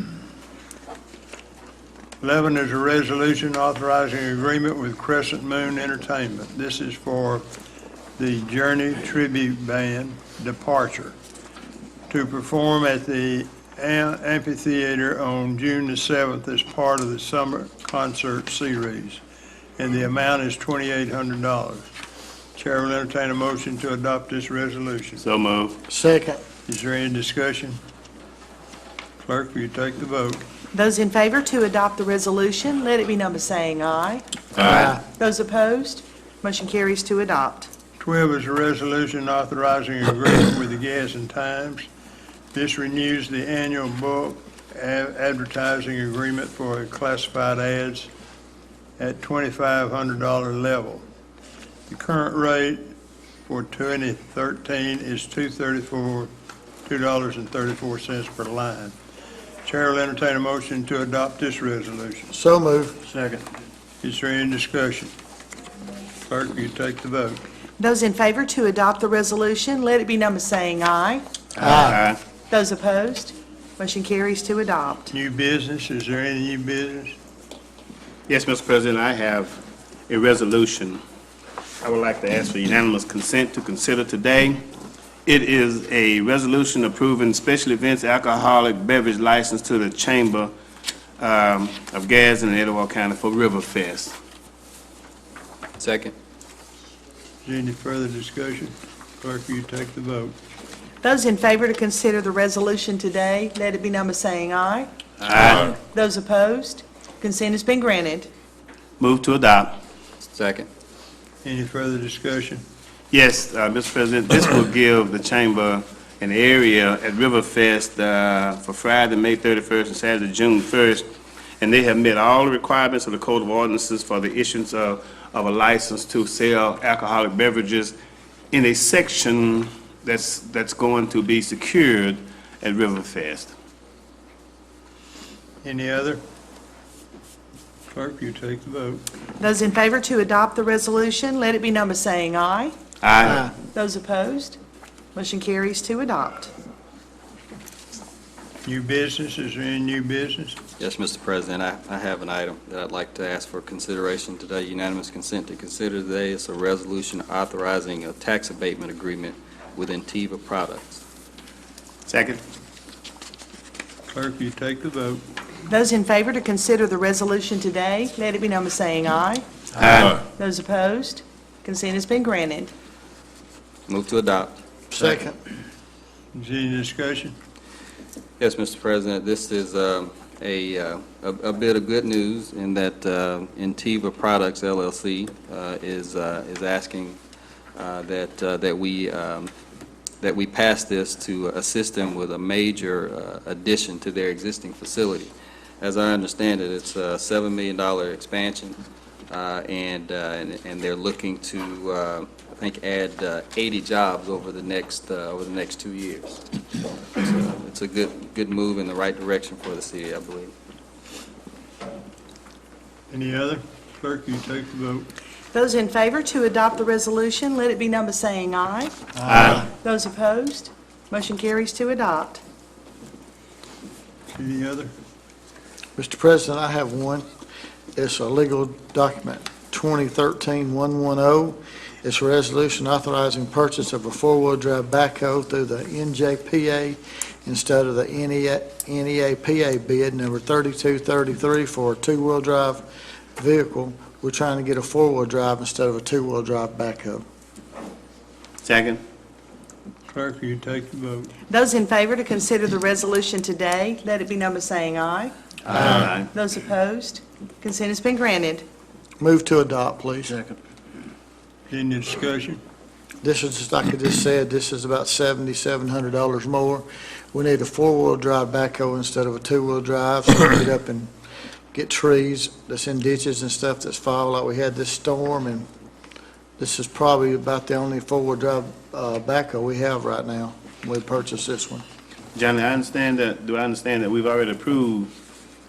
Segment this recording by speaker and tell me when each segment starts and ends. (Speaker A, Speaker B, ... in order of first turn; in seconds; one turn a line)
Speaker A: 2.2-7.5
Speaker A: 8.2-11.2
Speaker A: 12.1-19.2
Speaker A: 19.8-21.9
Speaker A: 22.6-25.2
Speaker B: 25.2-25.8
Speaker C: 25.9-26.4
Speaker A: 26.7-27.8
Speaker A: 29.2-30.4
Speaker D: 30.7-34.2
Speaker B: 34.6-34.9
Speaker C: 34.6-35.0
Speaker D: 34.8-37.7
Speaker A: 38.0-41.9
Speaker A: 42.5-48.1
Speaker A: 49.0-51.0
Speaker A: 51.9-52.8
Speaker A: 53.5-56.3
Speaker A: 56.8-58.9
Speaker A: 59.6-62.3
Speaker C: 62.3-63.0
Speaker A: 64.0-65.1
Speaker A: 66.2-67.4
Speaker D: 67.8-71.2
Speaker B: 71.5-72.2
Speaker C: 71.6-72.0
Speaker D: 72.5-75.1
Speaker A: 75.1-77.2
Speaker B: 78.3-81.0
Speaker B: 81.8-84.6
Speaker B: 85.2-90.5
Speaker B: 91.2-94.1
Speaker E: 95.8-96.1
Speaker A: 97.4-100.4
Speaker D: 101.0-104.9
Speaker B: 105.2-105.7
Speaker D: 105.5-108.3
Speaker B: 109.0-109.8
Speaker E: 110.3-110.7
Speaker A: 111.4-112.6
Speaker B: 113.1-121.1
Speaker B: 121.6-128.0
Speaker B: 128.5-133.5
Speaker A: 135.6-136.2
Speaker A: 137.9-139.0
Speaker D: 139.4-142.7
Speaker B: 143.0-143.4
Speaker D: 143.6-144.6
Speaker D: 145.1-146.5
Speaker A: 148.6-150.6
Speaker E: 150.8-161.0
Speaker B: 162.1-162.4
Speaker A: 164.1-165.2
Speaker D: 165.7-169.4
Speaker B: 169.8-170.2
Speaker D: 170.2-172.7
Speaker E: 173.9-174.6
Speaker C: 174.9-175.4
Speaker A: 176.3-177.3
Speaker E: 178.4-187.2
Speaker E: 187.8-189.5
Speaker E: 190.2-198.8
Speaker E: 199.3-206.4
Speaker E: 207.1-210.5
Speaker A: 213.1-215.1
Speaker D: 215.5-222.4
Speaker B: 219.2-219.6
Speaker A: 224.3-224.9
Speaker C: 226.0-227.2
Speaker C: 227.9-242.8
Speaker C: 243.4-247.2
Speaker B: 248.6-249.0
Speaker A: 250.1-251.3
Speaker D: 251.5-258.6
Speaker B: 255.7-256.3
Speaker C: 259.2-260.5
Speaker A: 261.7-262.6
Speaker C: 263.2-271.1
Speaker C: 271.7-275.6
Speaker C: 276.6-281.8
Speaker B: 282.3-285.1